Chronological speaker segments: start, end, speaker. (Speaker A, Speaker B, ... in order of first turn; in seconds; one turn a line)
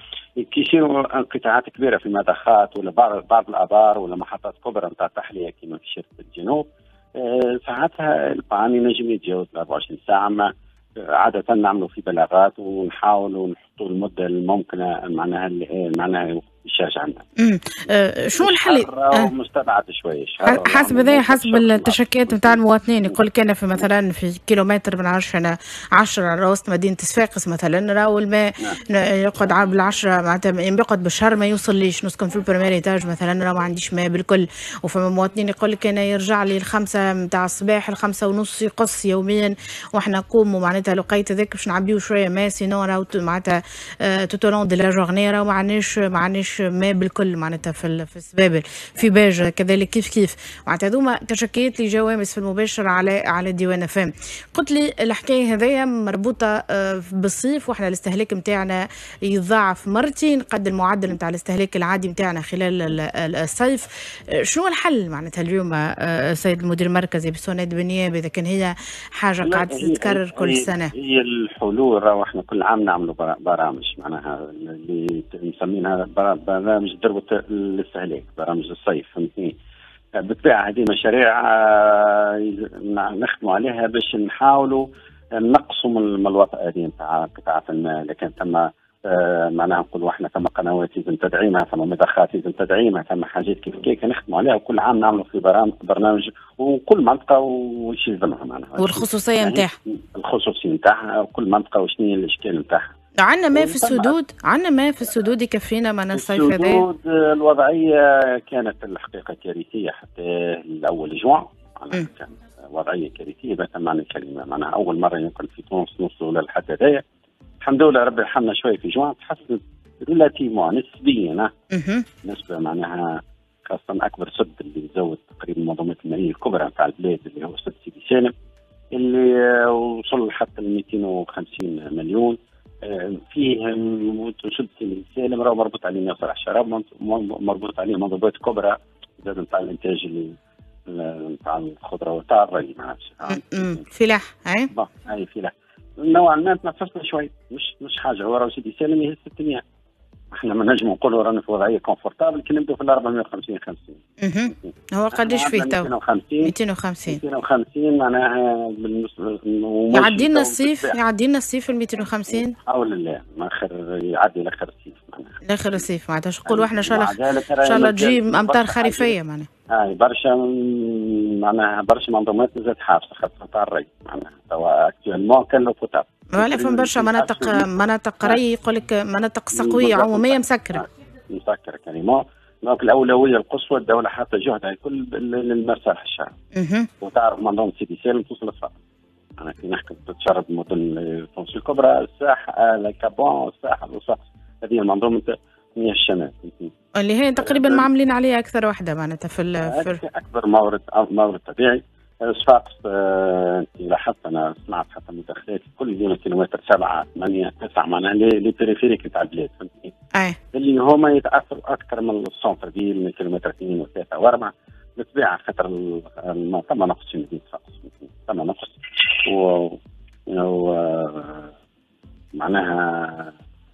Speaker A: 0.4-17.2
Speaker B: 17.4-19.3
Speaker A: 18.4-23.2
Speaker B: 20.4-70.9
Speaker A: 69.4-79.5
Speaker A: 80.2-84.8
Speaker A: 85.3-102.9
Speaker B: 98.8-99.8
Speaker B: 103.2-106.8
Speaker A: 103.5-104.1
Speaker A: 106.1-117.0
Speaker A: 117.6-121.5
Speaker B: 121.7-122.0
Speaker A: 122.2-128.3
Speaker A: 128.9-140.3
Speaker A: 140.9-143.8
Speaker B: 143.2-144.7
Speaker A: 144.7-149.6
Speaker A: 150.3-154.0
Speaker B: 154.2-155.9
Speaker A: 154.5-156.5
Speaker B: 156.4-157.2
Speaker A: 157.1-161.0
Speaker B: 159.9-162.5
Speaker A: 162.3-165.4
Speaker B: 165.4-169.5
Speaker A: 166.5-169.2
Speaker A: 169.7-177.7
Speaker B: 176.3-180.8
Speaker A: 179.5-186.3
Speaker B: 186.5-186.9
Speaker A: 187.0-188.8
Speaker A: 189.4-196.7
Speaker B: 196.9-200.0
Speaker A: 197.4-197.9
Speaker A: 199.6-209.9
Speaker A: 210.5-221.5
Speaker A: 222.3-223.3